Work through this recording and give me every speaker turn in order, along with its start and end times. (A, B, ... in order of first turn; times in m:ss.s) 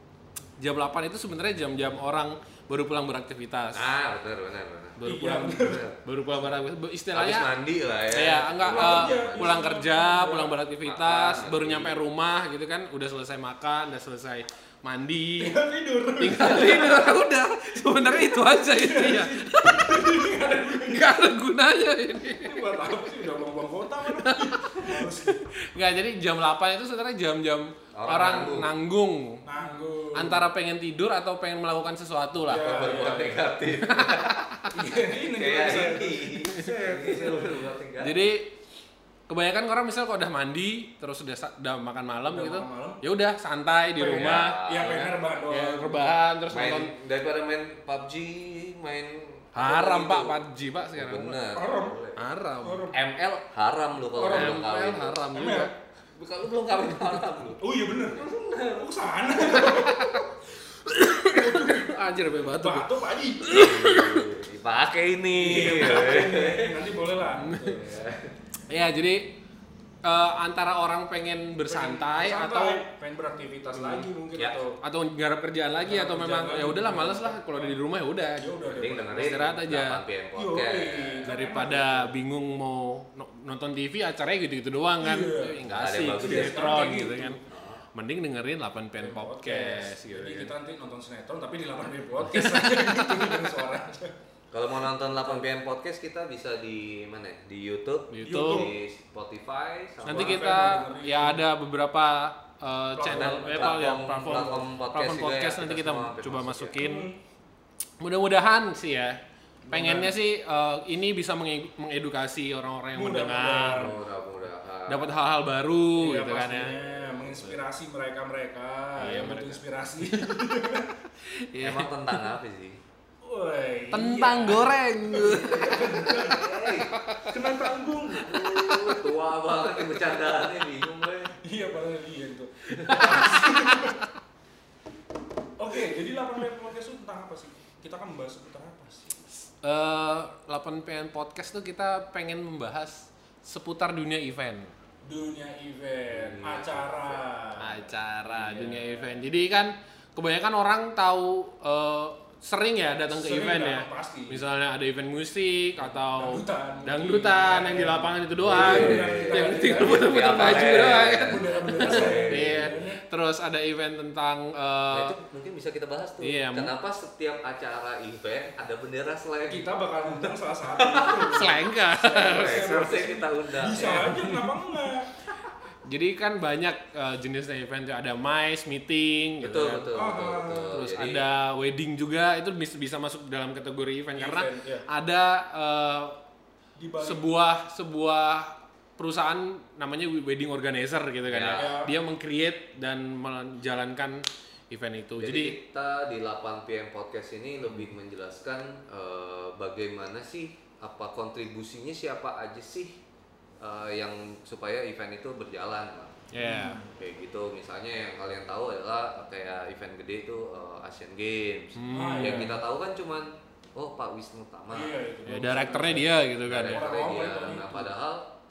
0:00.6-0:03.9 A
0:03.7-0:05.0 B
0:05.0-0:07.5 A
0:05.0-0:05.9 C
0:05.6-0:06.0 B
0:07.1-0:09.6 B
0:08.1-0:15.6 A
0:08.6-0:10.6 C
0:10.8-0:12.0 B
0:15.4-0:17.1 C
0:16.2-0:22.8 A
0:18.0-0:21.2 C
0:22.4-0:25.4 C
0:24.1-0:25.0 A
0:25.7-0:29.4 A
0:27.9-0:28.7 B
0:29.4-0:30.5 C
0:30.1-0:34.6 A
0:32.5-0:33.5 C
0:32.5-0:34.4 B
0:34.7-0:37.7 C
0:35.1-0:38.3 B
0:38.0-0:38.5 A
0:39.3-0:46.9 A
0:42.2-0:43.0 C
0:44.0-0:46.1 C
0:44.1-0:45.0 B
0:46.5-0:52.2 B
0:49.6-0:51.4 A
0:51.5-0:52.0 C
0:52.2-0:52.9 A
0:52.6-0:53.0 C
0:52.9-0:55.2 B
0:54.2-0:54.6 C
0:54.2-0:55.7 A
0:55.3-0:55.7 C
0:56.1-0:57.6 B
0:57.6-1:00.2 C
0:58.1-0:58.9 B
0:59.5-1:00.3 A
1:00.8-1:02.9 A
1:01.3-1:03.7 C
1:03.5-1:04.3 A
1:03.5-1:06.8 B
1:05.3-1:07.9 C
1:07.4-1:07.8 A
1:07.8-1:08.4 B
1:08.7-1:09.3 A
1:10.0-1:12.8 A
1:11.6-1:14.8 C
1:13.7-1:14.1 A
1:14.4-1:14.6 B
1:14.8-1:18.4 A
1:15.8-1:17.8 C
1:18.4-1:19.6 C
1:18.7-1:21.4 B
1:19.1-1:20.0 A
1:20.3-1:22.1 C
1:21.2-1:27.4 A
1:25.0-1:27.4 C
1:25.7-1:26.8 B
1:27.5-1:27.8 B
1:28.0-1:30.5 A
1:29.0-1:34.1 C
1:32.3-1:32.9 A
1:34.5-1:40.6 B
1:38.1-1:38.7 A
1:38.2-1:38.8 C
1:40.0-1:47.1 A
1:40.1-1:41.4 C
1:42.9-1:43.9 C
1:43.1-1:46.8 B
1:46.8-1:47.2 C
1:48.0-1:49.2 A
1:49.7-1:50.2 C
1:49.7-1:54.0 A
1:52.9-1:54.0 C
1:53.8-1:55.1 B
1:54.9-1:56.8 A
1:56.0-2:00.9 C
1:59.0-2:00.3 A
2:01.5-2:02.2 A
2:01.6-2:02.8 B
2:03.2-2:06.4 C
2:03.9-2:05.7 A
2:05.1-2:06.9 B
2:06.9-2:07.3 A
2:07.3-2:08.5 C
2:08.2-2:11.4 B
2:08.3-2:09.1 A
2:11.4-2:14.0 C
2:12.7-2:13.2 B
2:12.8-2:14.0 A
2:15.6-2:19.3 C
2:19.6-2:24.7 A
2:25.0-2:27.8 C
2:26.1-2:29.1 B
2:27.6-2:45.2 A
2:33.1-2:34.5 C
2:36.1-2:43.0 C
2:38.4-2:42.8 B
2:44.9-2:51.4 B
2:46.2-2:46.7 A
2:49.5-2:55.1 C
2:51.3-2:53.1 A
2:52.3-2:54.1 B
2:53.7-2:54.5 A
2:55.9-2:59.9 A
2:59.4-3:01.3 B
2:59.9-3:00.8 C
3:00.7-3:06.2 A
3:04.2-3:04.9 C
3:06.8-3:07.3 C
3:07.0-3:15.6 A
3:11.3-3:11.7 B
3:11.6-3:11.9 C
3:15.2-3:23.0 B
3:23.6-3:26.2 B
3:26.3-3:26.8 A
3:26.4-3:26.9 C
3:27.0-3:35.0 B
3:31.8-3:32.6 A
3:31.9-3:32.6 C
3:34.7-3:37.9 C
3:35.3-3:37.0 A
3:36.4-3:38.3 B